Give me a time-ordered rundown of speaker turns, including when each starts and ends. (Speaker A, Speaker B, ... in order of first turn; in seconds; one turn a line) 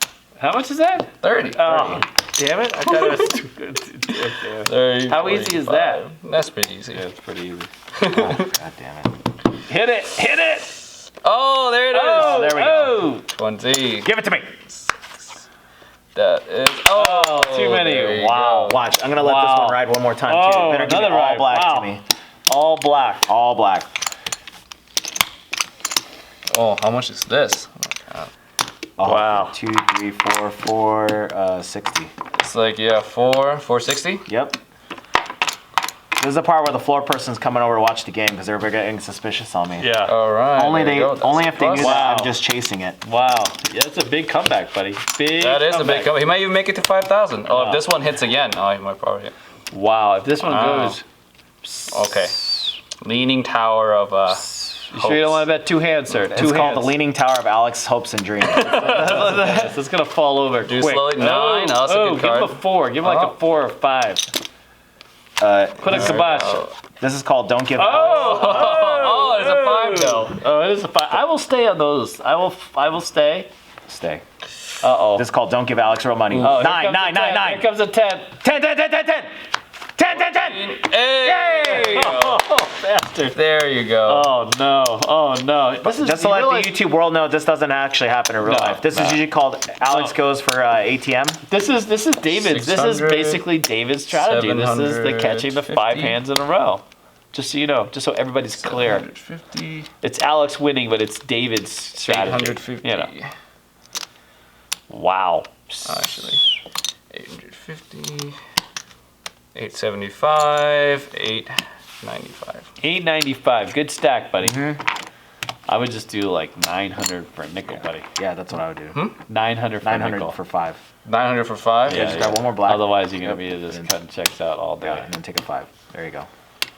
Speaker A: 0.4-6.0
Speaker B: 1.2-2.0
Speaker B: 2.9-3.3
Speaker B: 4.7-7.0
Speaker A: 6.9-7.7
Speaker B: 8.0-8.5
Speaker C: 8.1-9.2
Speaker A: 9.7-10.8
Speaker B: 11.2-12.7
Speaker A: 11.9-13.3
Speaker C: 12.1-13.0
Speaker B: 13.2-14.1
Speaker C: 14.0-14.5
Speaker B: 16.1-18.8
Speaker A: 16.9-23.3
Speaker C: 18.5-22.0
Speaker C: 23.3-23.9
Speaker B: 26.5-28.3
Speaker C: 29.0-32.1
Speaker A: 29.0-29.6
Speaker B: 32.4-34.2
Speaker C: 34.3-34.6
Speaker C: 36.2-39.9
Speaker A: 39.8-40.1
Speaker B: 40.1-42.1
Speaker C: 40.5-43.0
Speaker A: 41.8-42.4
Speaker A: 43.0-46.1
Speaker B: 45.4-49.3
Speaker A: 47.5-47.8
Speaker A: 49.7-51.0
Speaker B: 50.4-51.0
Speaker A: 51.6-52.5
Speaker B: 51.9-55.5
Speaker A: 54.9-57.0
Speaker C: 56.3-59.5
Speaker B: 58.5-59.5
Speaker A: 58.6-64.3
Speaker B: 60.6-63.4
Speaker C: 65.4-66.3
Speaker A: 65.8-66.7
Speaker B: 65.9-66.7
Speaker C: 67.0-68.6
Speaker A: 67.8-73.5
Speaker B: 67.9-70.3
Speaker C: 73.9-74.2
Speaker A: 74.8-75.3
Speaker C: 75.2-77.7
Speaker B: 76.3-76.7
Speaker A: 76.4-78.4
Speaker C: 78.4-79.3
Speaker C: 80.0-82.2
Speaker B: 80.1-82.4
Speaker A: 81.7-83.4
Speaker B: 83.3-84.3
Speaker A: 84.0-86.8
Speaker C: 85.8-91.4
Speaker A: 88.4-89.2
Speaker A: 89.8-90.2
Speaker A: 91.5-99.0
Speaker B: 92.3-93.5
Speaker B: 94.1-96.2
Speaker B: 98.6-99.9
Speaker A: 100.0-103.1
Speaker B: 102.0-103.3
Speaker A: 104.9-106.4
Speaker B: 105.8-106.4
Speaker B: 107.1-108.4
Speaker B: 109.5-112.7
Speaker A: 112.8-114.8
Speaker C: 114.4-114.8
Speaker A: 115.7-118.1
Speaker C: 118.2-119.0
Speaker A: 119.3-120.3
Speaker C: 119.8-120.8
Speaker B: 121.0-122.2
Speaker A: 121.9-125.1
Speaker C: 121.9-123.9
Speaker C: 124.8-126.3